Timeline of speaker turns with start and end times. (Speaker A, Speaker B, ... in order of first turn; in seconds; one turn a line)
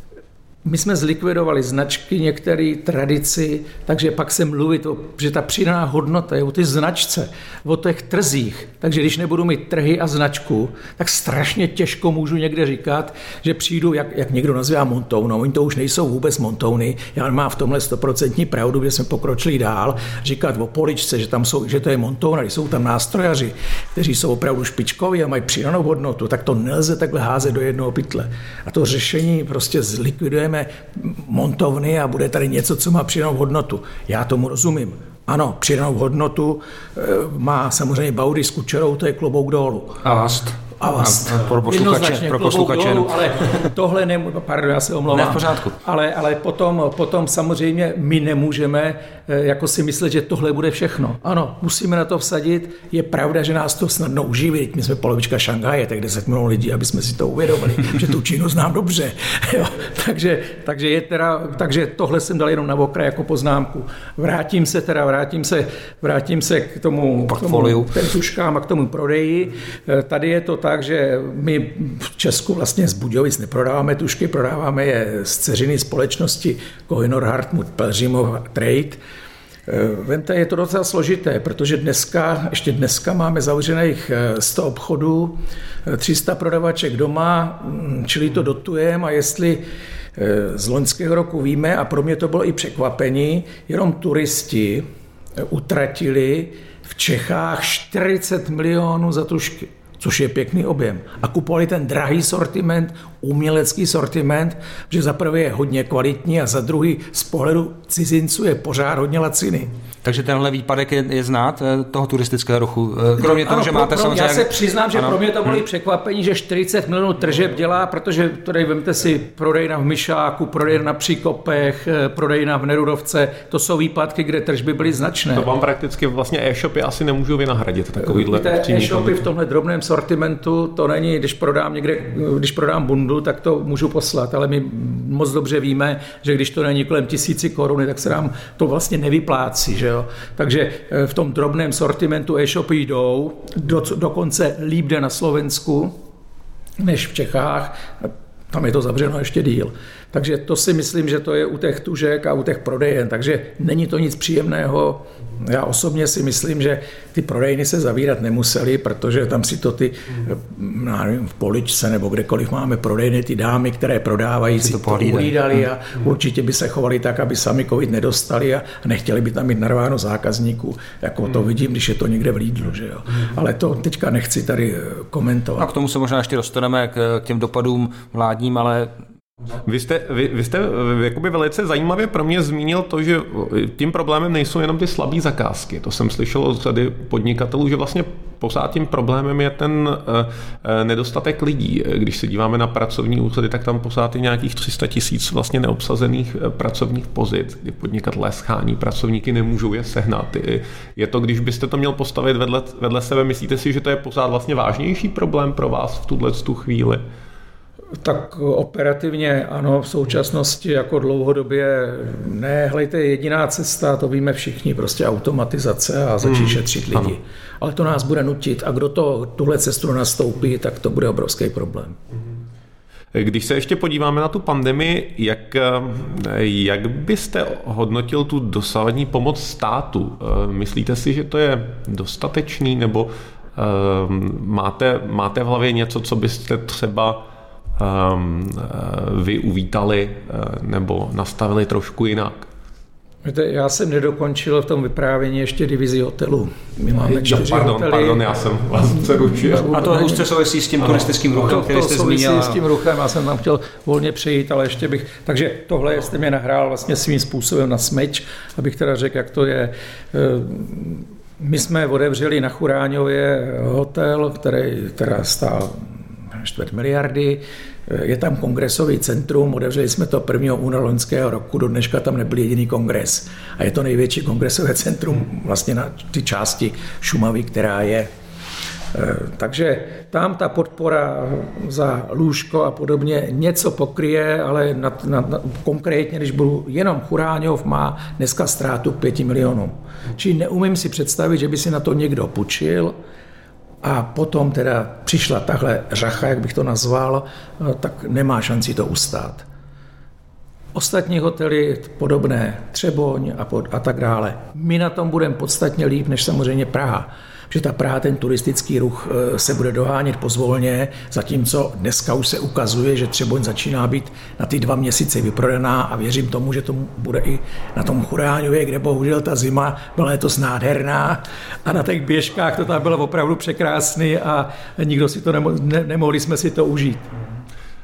Speaker A: 0.6-40.0
Speaker B: 40.0-43.1
Speaker A: 40.8-79.0
Speaker B: 45.1-45.7
Speaker B: 67.3-67.9
Speaker A: 79.7-89.6
Speaker A: 90.1-94.8
Speaker A: 95.5-109.7
Speaker B: 110.0-115.2
Speaker A: 113.2-125.5
Speaker C: 125.3-129.2
Speaker A: 128.1-146.0
Speaker A: 146.8-175.7
Speaker B: 164.6-165.7
Speaker B: 175.6-178.9
Speaker C: 179.6-207.0
Speaker A: 208.0-222.0
Speaker C: 216.2-217.1
Speaker C: 223.1-237.2
Speaker C: 237.8-242.4
Speaker A: 243.2-248.2
Speaker C: 247.0-249.8
Speaker A: 249.2-250.3
Speaker B: 249.5-252.6
Speaker A: 251.3-278.1
Speaker A: 278.9-293.0
Speaker A: 293.8-299.4
Speaker A: 300.7-327.1